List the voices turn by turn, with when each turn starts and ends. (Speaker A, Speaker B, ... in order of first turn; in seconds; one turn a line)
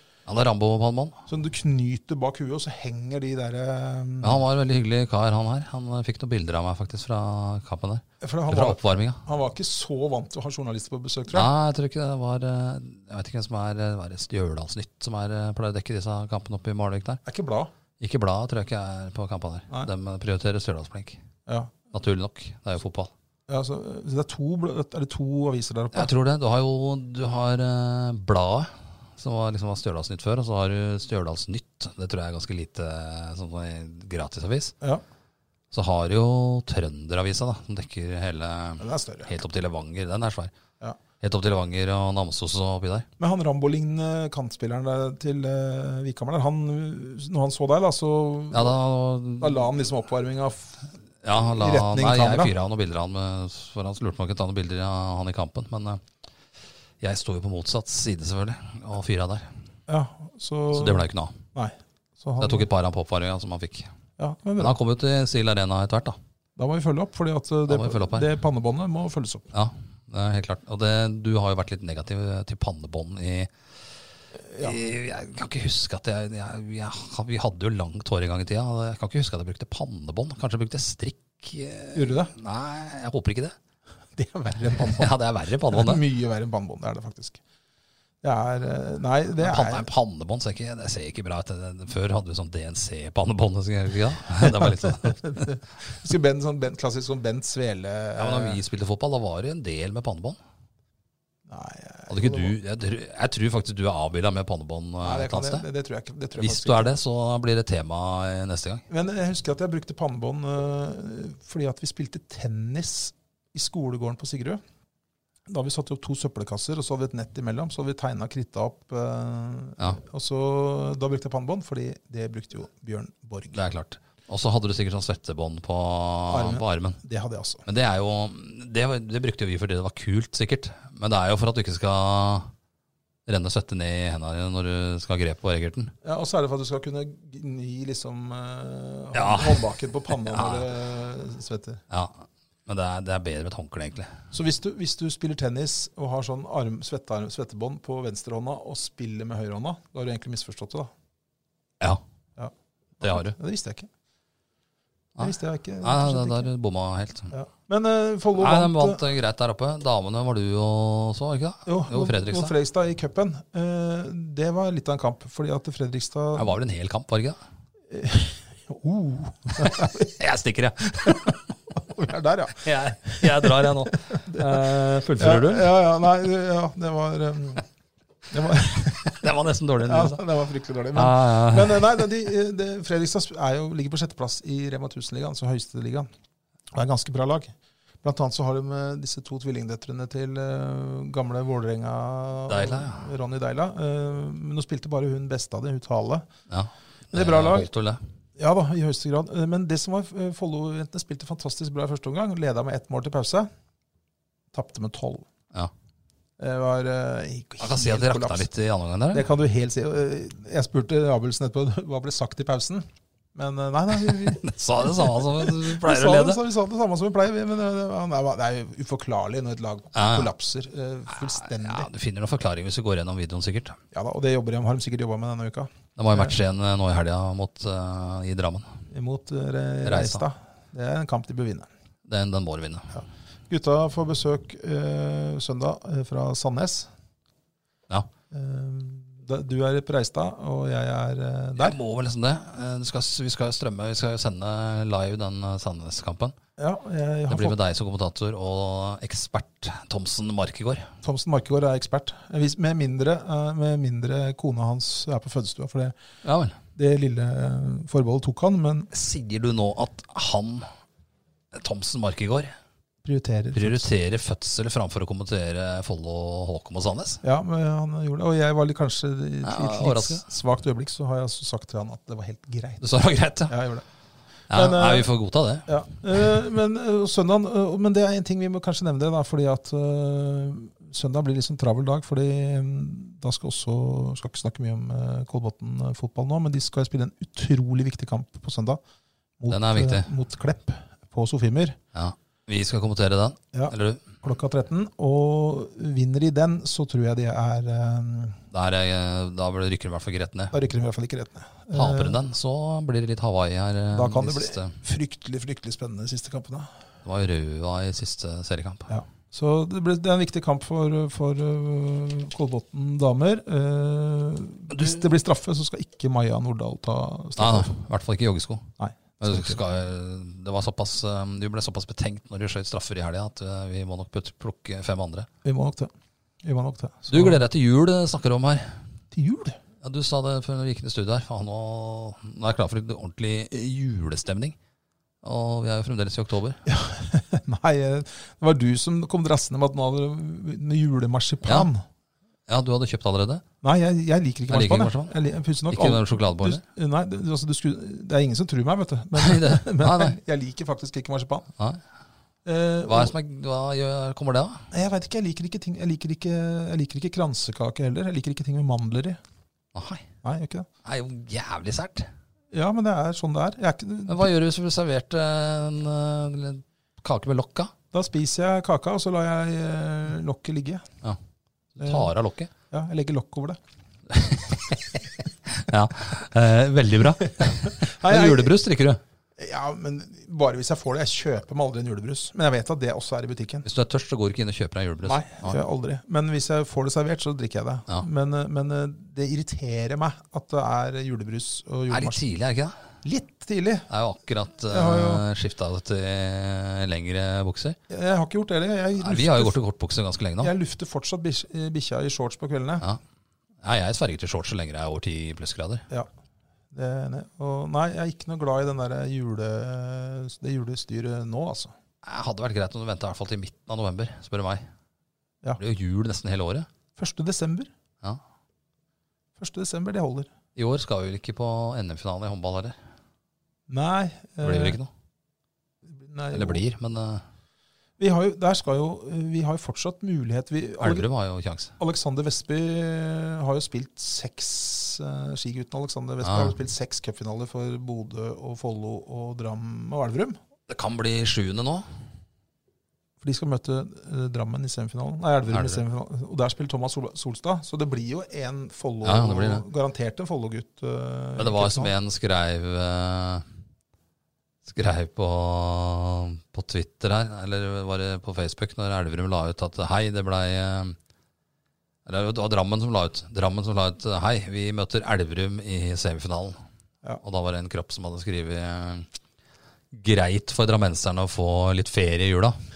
Speaker A: 0.3-1.2
Speaker B: 1.3-4.5
Speaker A: 4.2-9.2
Speaker B: 8.2-11.5
Speaker A: 11.3-17.2
Speaker B: 17.2-17.7
Speaker A: 18.0-21.2
Speaker B: 21.5-21.7
Speaker A: 21.9-23.1
Speaker B: 23.5-26.1
Speaker A: 25.9-34.7
Speaker A: 35.7-40.5
Speaker B: 38.8-39.4
Speaker A: 41.2-43.1
Speaker B: 43.2-48.8
Speaker A: 48.5-49.5
Speaker B: 49.4-50.9
Speaker A: 51.2-56.0
Speaker B: 51.4-52.5
Speaker A: 57.0-59.5
Speaker B: 59.9-62.7
Speaker A: 60.7-61.3
Speaker A: 62.4-63.9
Speaker B: 64.2-64.8
Speaker A: 64.6-66.2
Speaker B: 66.6-69.5
Speaker A: 67.7-68.3
Speaker A: 69.5-73.5
Speaker B: 74.5-74.8
Speaker A: 74.6-83.6
Speaker B: 81.9-82.3
Speaker B: 84.2-85.2
Speaker A: 84.8-86.0
Speaker B: 85.7-87.4
Speaker B: 88.2-89.9
Speaker A: 89.4-95.5
Speaker B: 94.4-98.6
Speaker A: 98.2-100.4
Speaker B: 101.5-102.6
Speaker A: 102.1-105.6
Speaker B: 105.0-106.9
Speaker A: 106.4-108.8
Speaker B: 108.9-114.6
Speaker B: 115.5-123.6
Speaker A: 123.5-127.0
Speaker B: 126.3-127.7
Speaker A: 127.7-132.5
Speaker A: 133.3-135.9
Speaker B: 136.0-141.8
Speaker A: 139.2-139.6
Speaker A: 140.2-140.7
Speaker A: 141.9-144.1
Speaker B: 144.3-150.9
Speaker B: 152.4-153.9
Speaker A: 153.0-153.3
Speaker A: 155.2-157.3
Speaker B: 155.2-156.5
Speaker B: 157.3-159.0
Speaker A: 158.4-162.5
Speaker B: 161.7-166.5
Speaker A: 166.4-167.4
Speaker B: 167.9-170.2
Speaker A: 169.6-171.4
Speaker B: 171.0-177.7
Speaker A: 172.6-175.7
Speaker B: 178.3-179.2
Speaker A: 179.1-180.2
Speaker B: 179.8-186.1
Speaker A: 180.9-181.9
Speaker B: 186.7-196.3
Speaker A: 192.5-193.1
Speaker A: 196.5-198.0
Speaker B: 197.1-197.7
Speaker B: 198.4-203.5
Speaker B: 204.5-205.3
Speaker B: 206.4-208.5
Speaker A: 207.6-209.2
Speaker B: 209.1-221.9
Speaker A: 214.0-216.4
Speaker A: 219.9-220.3
Speaker A: 221.4-223.8
Speaker B: 223.9-226.4
Speaker A: 226.0-228.7
Speaker B: 228.9-231.7
Speaker A: 229.8-230.2
Speaker A: 232.1-232.9
Speaker B: 232.9-236.9
Speaker B: 238.3-241.8
Speaker A: 241.6-246.3
Speaker B: 246.6-247.6
Speaker A: 247.3-250.9
Speaker B: 251.0-255.9
Speaker A: 256.2-256.6
Speaker B: 256.8-258.9
Speaker A: 258.9-260.7
Speaker A: 261.5-262.6
Speaker B: 263.0-263.9
Speaker A: 263.6-267.2
Speaker B: 267.2-272.9
Speaker A: 269.4-270.2
Speaker A: 272.8-273.6
Speaker B: 273.5-273.8
Speaker B: 274.5-275.1
Speaker A: 274.5-275.7
Speaker B: 275.7-288.8
Speaker B: 289.4-291.8
Speaker A: 289.5-290.1
Speaker A: 291.9-294.1
Speaker B: 293.5-298.4
Speaker A: 298.5-300.6
Speaker B: 300.5-302.2
Speaker A: 301.7-304.8
Speaker B: 303.9-306.7
Speaker A: 307.1-308.9
Speaker B: 308.9-317.7
Speaker A: 314.7-315.1
Speaker A: 317.4-318.7
Speaker B: 318.8-319.6
Speaker A: 319.2-325.3
Speaker B: 325.4-325.9
Speaker B: 326.4-327.4
Speaker A: 327.1-328.8
Speaker B: 329.1-329.6
Speaker A: 329.8-334.6
Speaker A: 335.2-336.6
Speaker B: 336.7-341.9
Speaker A: 342.5-343.4
Speaker B: 343.6-351.5
Speaker A: 344.5-345.1
Speaker A: 345.7-346.6
Speaker A: 349.2-350.2
Speaker B: 352.4-353.1
Speaker A: 352.9-354.6
Speaker B: 354.7-359.2
Speaker A: 359.7-360.1
Speaker B: 360.2-360.7
Speaker A: 360.8-362.1
Speaker B: 362.5-364.3
Speaker A: 364.1-367.7
Speaker B: 367.9-370.9
Speaker A: 371.8-372.5
Speaker B: 371.8-372.1
Speaker B: 372.7-373.6
Speaker A: 374.1-374.4
Speaker A: 375.5-379.0
Speaker B: 377.4-378.6
Speaker B: 379.4-383.7
Speaker A: 383.6-385.6
Speaker B: 385.0-392.2
Speaker A: 391.9-392.8
Speaker B: 393.0-393.9
Speaker A: 393.9-397.8
Speaker B: 394.7-395.3
Speaker B: 397.9-399.6
Speaker A: 399.0-400.5
Speaker B: 400.4-402.9
Speaker A: 403.6-405.9
Speaker B: 406.7-411.7
Speaker A: 412.0-414.6
Speaker A: 415.6-416.7
Speaker B: 417.0-417.7
Speaker B: 419.4-420.3
Speaker A: 420.6-422.8
Speaker B: 423.7-424.8
Speaker A: 424.4-424.9
Speaker B: 425.9-426.6
Speaker A: 426.3-427.2
Speaker B: 428.0-431.1
Speaker A: 430.8-431.7
Speaker B: 431.8-440.4
Speaker A: 436.2-436.6
Speaker A: 440.7-441.9
Speaker B: 443.2-451.9
Speaker A: 445.5-445.8
Speaker A: 449.0-449.6
Speaker A: 451.4-453.4
Speaker A: 454.6-461.0
Speaker A: 462.1-466.6
Speaker A: 467.2-469.1
Speaker A: 469.9-472.6